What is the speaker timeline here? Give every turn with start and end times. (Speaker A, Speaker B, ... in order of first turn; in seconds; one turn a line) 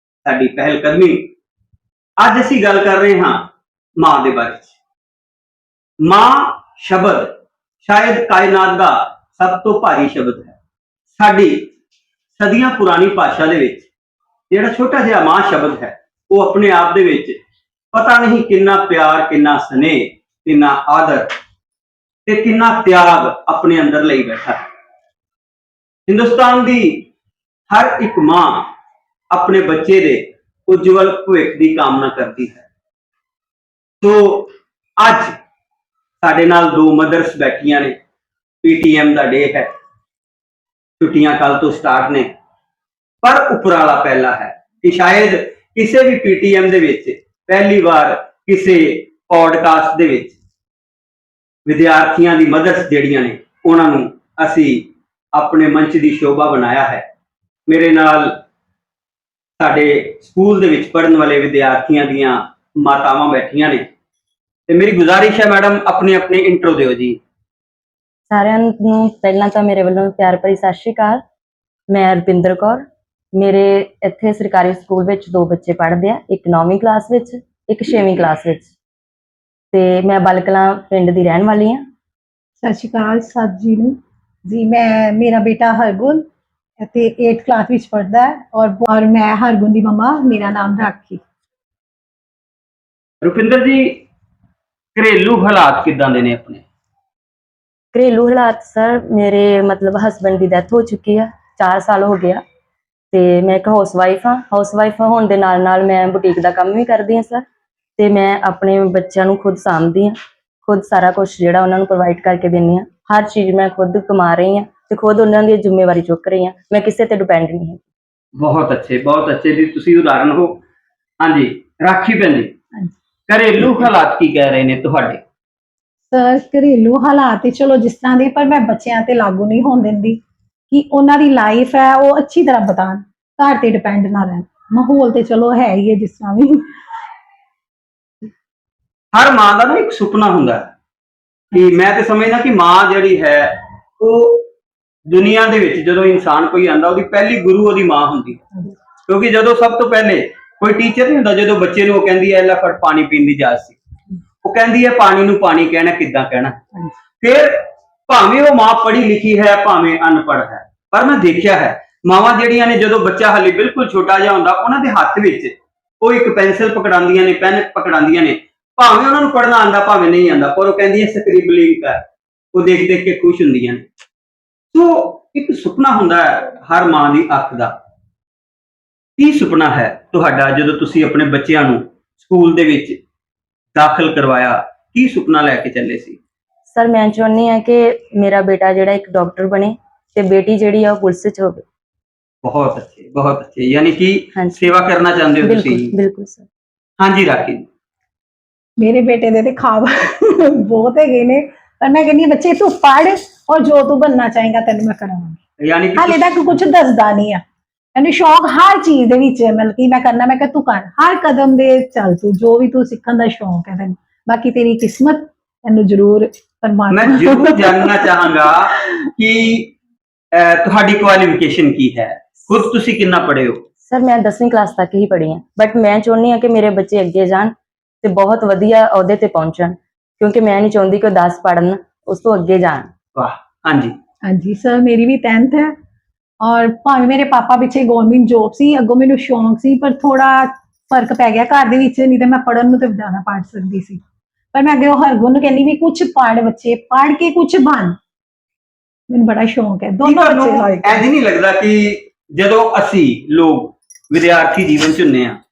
Speaker A: 0.2-1.3
Speaker A: 2.2-4.7
Speaker A: 6.0-10.5
Speaker A: 11.1-11.7
Speaker A: 12.4-13.9
Speaker A: 14.5-17.4
Speaker A: 17.9-21.3
Speaker A: 22.2-24.6
Speaker A: 26.1-27.1
Speaker A: 27.7-28.7
Speaker A: 29.3-32.6
Speaker A: 34.0-35.3
Speaker A: 36.2-38.0
Speaker A: 38.6-39.7
Speaker A: 41.0-42.3
Speaker A: 43.2-50.4
Speaker A: 51.6-57.0
Speaker A: 57.7-58.4
Speaker A: 59.6-63.9
Speaker A: 64.7-67.2
Speaker B: 68.3-71.2
Speaker B: 71.9-72.8
Speaker B: 73.4-78.7
Speaker B: 79.7-81.8
Speaker C: 82.6-83.9
Speaker C: 84.5-86.2
Speaker C: 86.8-91.2
Speaker A: 93.2-94.0
Speaker A: 94.9-96.6
Speaker B: 97.9-102.4
Speaker B: 103.1-107.4
Speaker B: 108.0-117.8
Speaker A: 118.4-120.6
Speaker A: 121.2-122.5
Speaker A: 123.3-125.2
Speaker C: 126.1-136.7
Speaker A: 139.1-140.7
Speaker A: 141.5-144.5
Speaker A: 145.1-148.4
Speaker A: 149.0-153.8
Speaker A: 154.4-156.6
Speaker A: 157.2-172.0
Speaker A: 172.5-173.8
Speaker A: 174.7-177.7
Speaker A: 179.2-183.0
Speaker A: 183.7-186.2
Speaker B: 186.7-191.6
Speaker A: 192.4-195.9
Speaker B: 194.3-194.7
Speaker B: 195.4-196.5
Speaker A: 197.0-197.7
Speaker C: 198.8-205.4
Speaker A: 205.6-206.6
Speaker C: 205.9-207.4
Speaker C: 207.9-218.1
Speaker A: 216.9-219.7
Speaker A: 220.3-223.6
Speaker B: 223.8-232.9
Speaker A: 233.1-233.9
Speaker C: 234.2-235.7
Speaker C: 236.4-244.0
Speaker C: 244.5-248.0
Speaker C: 249.1-251.0
Speaker A: 250.0-255.4